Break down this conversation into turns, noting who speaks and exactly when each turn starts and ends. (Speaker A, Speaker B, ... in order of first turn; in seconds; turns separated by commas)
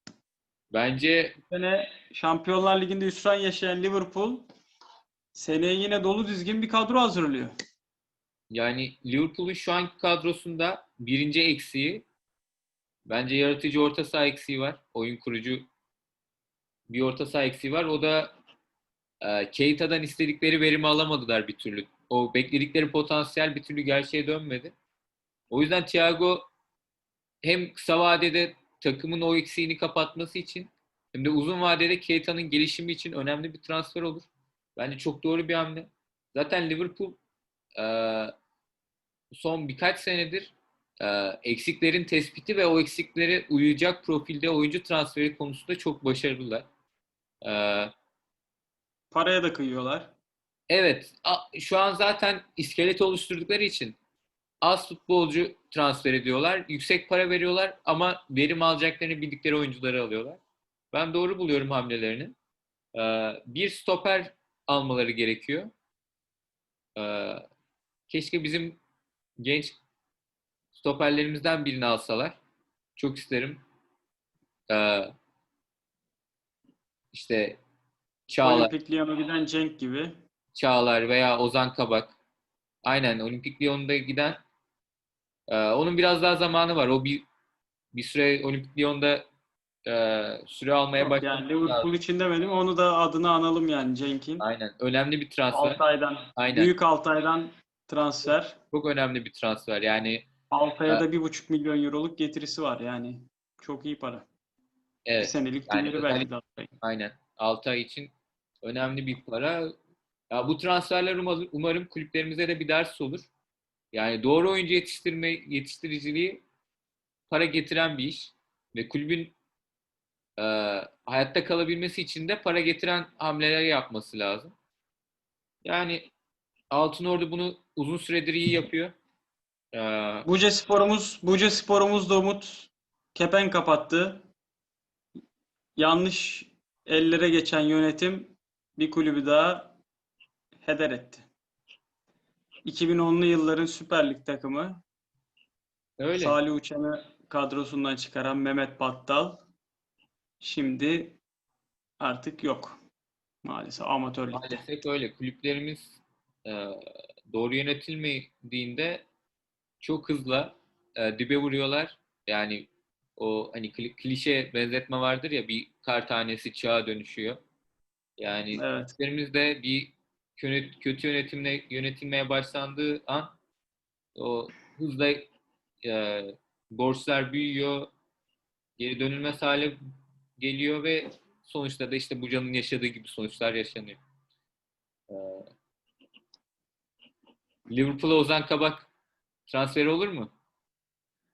Speaker A: 0.7-1.4, Speaker B: 1.5-4.5, Speaker B: 5.3-7.5, Speaker A: 8.5-12.0, Speaker A: 13.1-15.7, Speaker A: 16.9-18.3, Speaker A: 19.2-24.7, Speaker A: 25.5-26.5, Speaker A: 27.4-37.2, Speaker A: 37.8-38.3, Speaker A: 39.3-46.6, Speaker A: 47.4-47.9, Speaker B: 49.1-50.1, Speaker A: 50.7-54.0, Speaker A: 54.6-60.4, Speaker A: 60.9-62.3, Speaker A: 62.9-65.7, Speaker A: 67.0-67.4, Speaker A: 68.1-68.8, Speaker A: 69.4-69.8, Speaker A: 70.7-72.4, Speaker A: 73.0-73.6, Speaker A: 74.7-75.1, Speaker A: 77.1-77.6, Speaker A: 78.3-78.7, Speaker B: 78.4-80.1, Speaker A: 80.5-82.2, Speaker A: 82.8-84.4, Speaker A: 85.5-87.2, Speaker A: 87.9-89.3, Speaker A: 89.9-91.9, Speaker B: 91.0-94.4, Speaker A: 94.4-95.8, Speaker B: 95.5-98.6, Speaker A: 96.4-96.7, Speaker A: 98.7-100.3, Speaker B: 100.5-104.2, Speaker A: 105.0-106.3, Speaker B: 105.2-106.7, Speaker A: 106.8-108.1, Speaker A: 108.6-109.7, Speaker A: 110.3-113.3, Speaker A: 113.9-116.4, Speaker A: 117.3-119.3, Speaker A: 120.4-124.5, Speaker A: 125.6-126.1, Speaker A: 126.7-128.9, Speaker A: 129.7-130.3, Speaker B: 130.3-134.2, Speaker B: 135.8-139.8, Speaker B: 140.6-141.3, Speaker B: 142.7-144.8, Speaker A: 146.0-146.4, Speaker B: 146.2-149.4, Speaker B: 150.4-151.2, Speaker B: 152.0-152.8, Speaker B: 153.4-154.6, Speaker A: 154.3-159.1, Speaker A: 159.8-167.4, Speaker A: 168.2-173.3, Speaker B: 168.6-168.9, Speaker A: 174.2-175.3, Speaker A: 175.8-177.9, Speaker A: 178.8-179.8, Speaker A: 180.4-184.0, Speaker A: 185.1-185.5, Speaker A: 187.7-188.9, Speaker A: 189.5-190.3